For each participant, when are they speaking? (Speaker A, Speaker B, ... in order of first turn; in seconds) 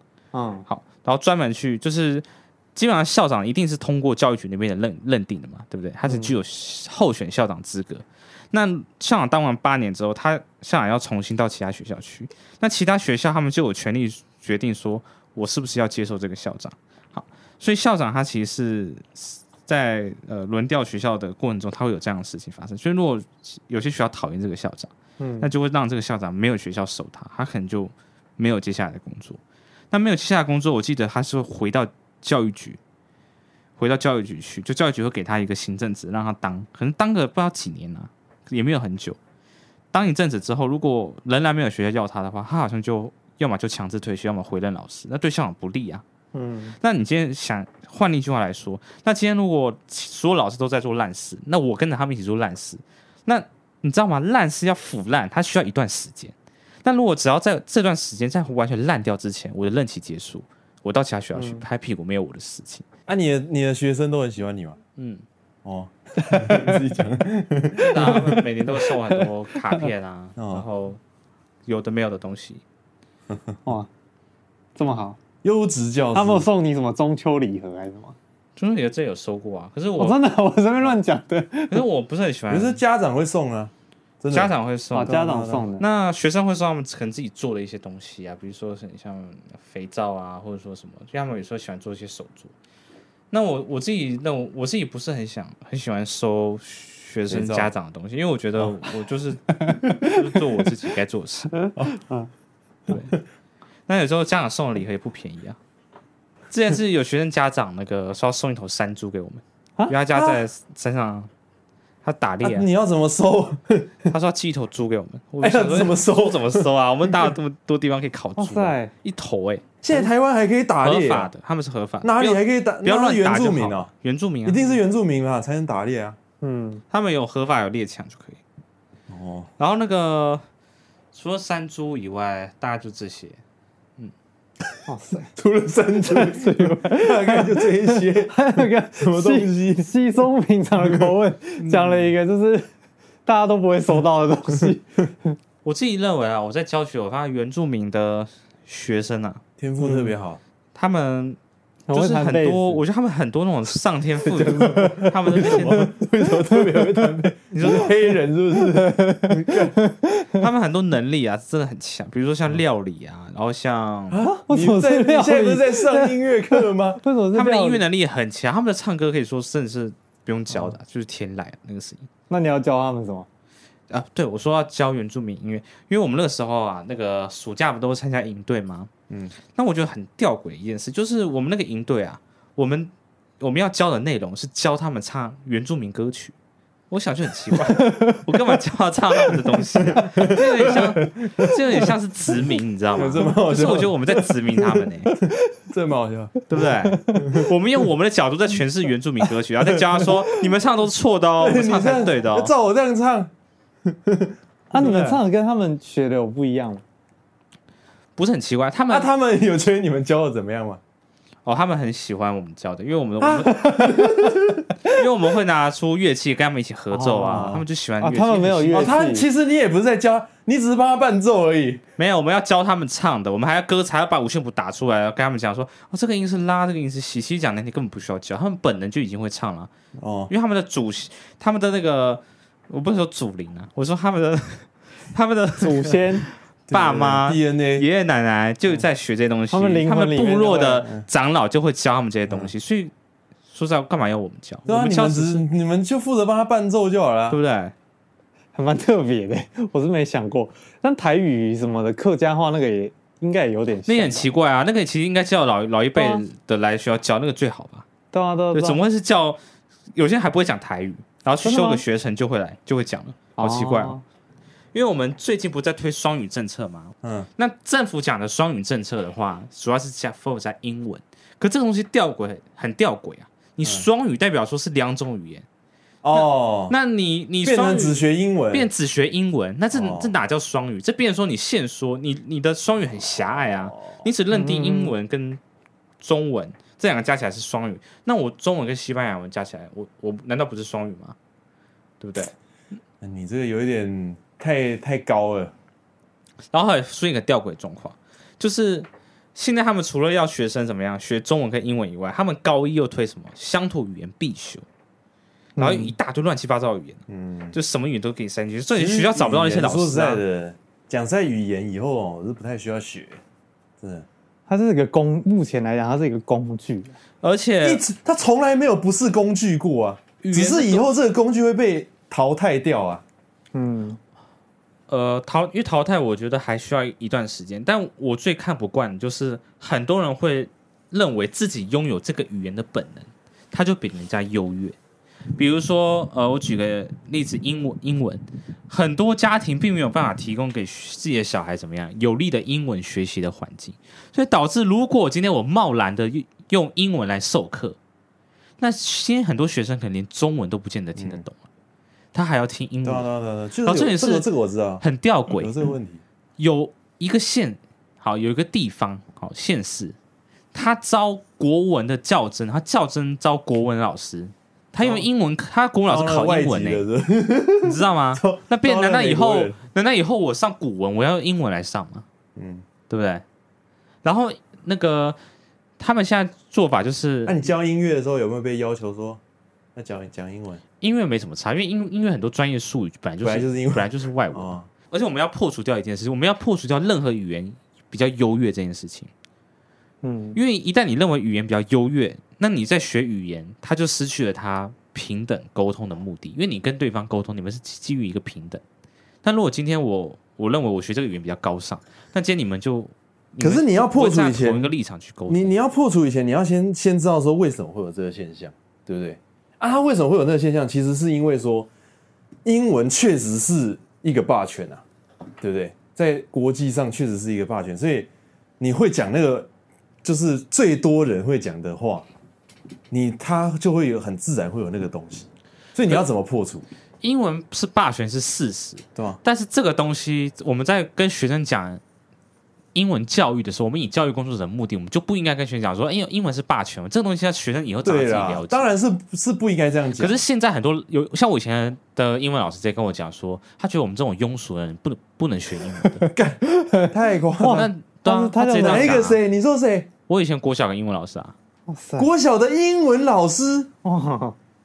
Speaker A: 0.3-0.7, 6.0-6.3, 25.2-25.5, 46.3-46.7, 61.3-61.6, 66.2-66.7, 68.0-68.4, 74.8-75.2, 76.1-78.2, 80.0-81.8, 84.9-85.8, 99.7-100.1, 101.6-102.3, 118.4-118.9, 126.4-126.8, 134.9-135.3, 136.0-142.7, 143.2-145.4, 149.8-150.1, 151.9-152.8, 154.7-157.1, 158.7-160.4, 164.2-167.8, 172.3-173.3, 187.8-188.2, 196.8-197.2, 204.7-206.8, 213.4-214.3, 216.9-219.2, 235.6-236.3, 239.5-240.9, 248.5-254.3, 255.9-256.2, 258.1-258.8, 261.4-261.8, 263.4-264.0, 284.3-284.9, 305.6-305.9, 314.5-317.0, 323.5-324.0, 390.0-390.4, 445.8-449.0, 451.7-452.1, 453.8-454.4
Speaker B: 0.7-29.4, 29.9-32.8, 33.8-39.2, 39.9-46.0, 46.8-62.8, 65.0-65.2, 67.8-71.0, 71.7-72.6, 78.6-80.2, 81.7-82.8, 84.3-85.2, 85.8-92.5, 93.3-101.6, 102.9-103.1, 103.9-105.6, 106.5-111.3, 112.0-112.7, 114.1-119.8, 120.8-124.6, 126.9-128.4, 129.6-130.4, 131.1-133.4, 145.6-149.4, 150.7-151.4, 151.9-155.9, 157.5-157.9, 160.4-164.2, 167.3-172.1, 173.9-178.9, 179.5-186.3, 186.9-195.2, 196.5-202.5, 208.2-209.1, 211.4-213.7, 214.8-218.9, 222.0-229.7, 230.3-242.9, 243.5-245.4, 247.3-247.7, 253.9-257.9, 258.5-259.4, 259.9-263.9, 264.7-275.4, 276.1-285.4, 286.0-291.1, 292.0-292.3, 296.5-304.6, 305.6-307.0, 307.5-310.2, 317.2-317.8, 320.2-320.9, 324.9-334.8, 335.3-347.8, 348.6-351.3, 352.1-353.1, 353.6-354.2, 354.8-355.5, 356.4-359.9, 360.5-366.8, 367.6-372.0, 372.9-373.2, 374.0-375.2, 375.8-377.4, 380.8-389.1, 390.3-398.6, 399.2-405.5, 427.0-431.8, 432.7-438.7, 440.0-446.1, 447.5-449.2, 450.1-451.3
Speaker C: 63.0-64.8, 65.6-68.4, 70.4-70.7, 75.4-76.5, 82.5-85.7, 97.3-97.7, 112.4-114.0, 115.4-117.3, 119.8-121.3, 122.0-123.9, 124.4-126.2, 129.1-129.5, 135.3-139.9, 140.8-141.1, 141.6-142.0, 149.6-150.4, 154.4-159.7, 164.1-167.0, 179.1-179.4, 189.8-191.8, 192.9-196.4, 197.2-197.5, 199.8-200.1, 201.4-203.3, 203.9-205.2, 208.9-210.8, 213.2-214.6, 217.3-217.6, 218.7-221.8, 230.0-230.3, 236.7-237.8, 244.7-247.4, 267.0-267.3, 276.0-276.7, 277.4-278.7, 279.7-280.1, 293.0-295.5, 307.1-307.5, 308.7-313.2, 313.8-314.1, 317.6-323.0, 351.0-351.2, 352.8-356.0, 364.8-365.1, 365.9-369.6, 372.4-372.6, 377.2-379.2, 379.8-380.6, 383.2-384.6, 403.4-404.7, 405.3-411.7, 412.4-414.8, 415.4-418.1, 418.6-419.5, 420.0-422.1, 422.9-426.6, 437.8-440.2, 446.1-447.7, 448.6-449.9, 452.0-453.7